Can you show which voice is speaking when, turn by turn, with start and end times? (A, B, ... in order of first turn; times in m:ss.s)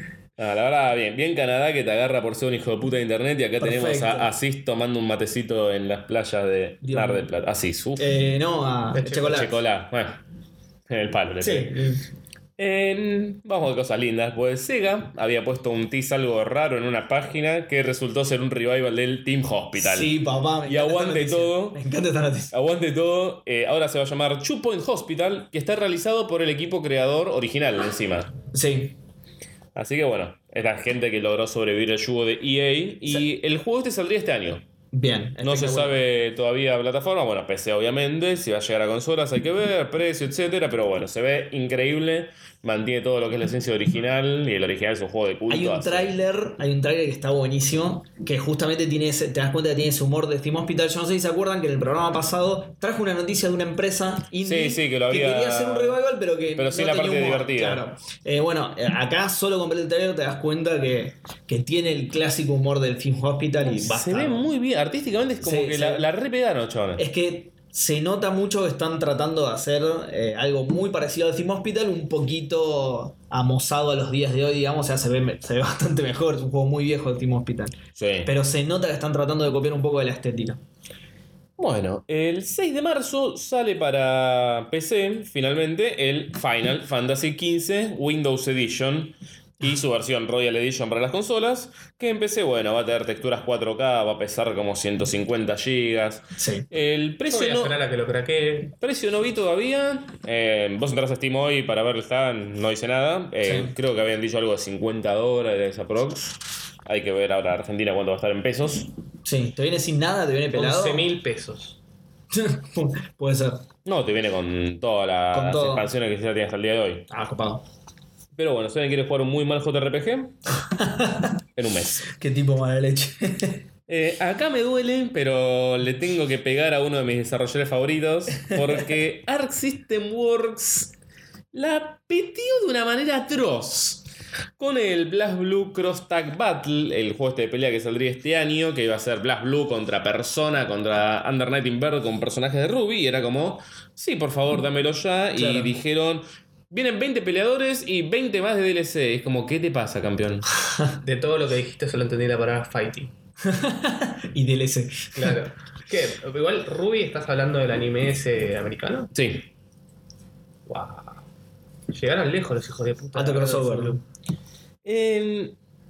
0:00.4-0:08.1 A
0:03.6-0:04.3 B
0:06.8-0:07.3 B
0:08.0-0:09.5 B
0:08.9-0:09.4 C
0:09.1-0:10.2 A
0:10.9-0:11.7 A
0:11.4-0:12.0 B
0:12.6-0:21.8 A
0:19.8-0:22.5 B
0:22.5-0:28.3 A
0:28.5-0:29.0 B
0:29.8-0:34.6 A
0:34.9-0:36.0 B
0:35.4-0:46.1 A
0:45.5-1:04.5 B
0:54.4-0:56.0 A
0:56.6-0:57.8 A
1:03.6-1:07.0 A
1:05.4-1:06.1 B
1:07.0-1:20.6 B
1:18.0-1:18.3 A
1:21.6-1:37.8 A
1:36.4-1:36.7 B
1:37.3-1:38.7 C
1:38.8-1:48.9 A
1:43.4-1:43.7 B
1:49.2-1:51.1 B
1:50.5-1:51.8 C
1:52.3-1:53.6 B
1:53.8-1:57.1 A
1:55.3-1:55.9 B
1:57.1-1:57.6 B
1:58.4-2:00.4 A
2:00.7-2:01.3 B
2:01.6-2:02.1 A
2:02.1-2:03.6 B
2:03.9-2:10.9 A
2:11.5-2:14.1 A
2:14.6-2:30.5 A
2:25.4-2:25.7 B
2:31.0-2:33.1 C
2:33.4-2:35.4 B
2:35.2-2:39.1 C
2:39.1-2:39.5 A
2:40.7-2:41.2 C
2:41.9-2:44.0 C
2:43.2-2:44.0 B
2:44.8-2:45.6 A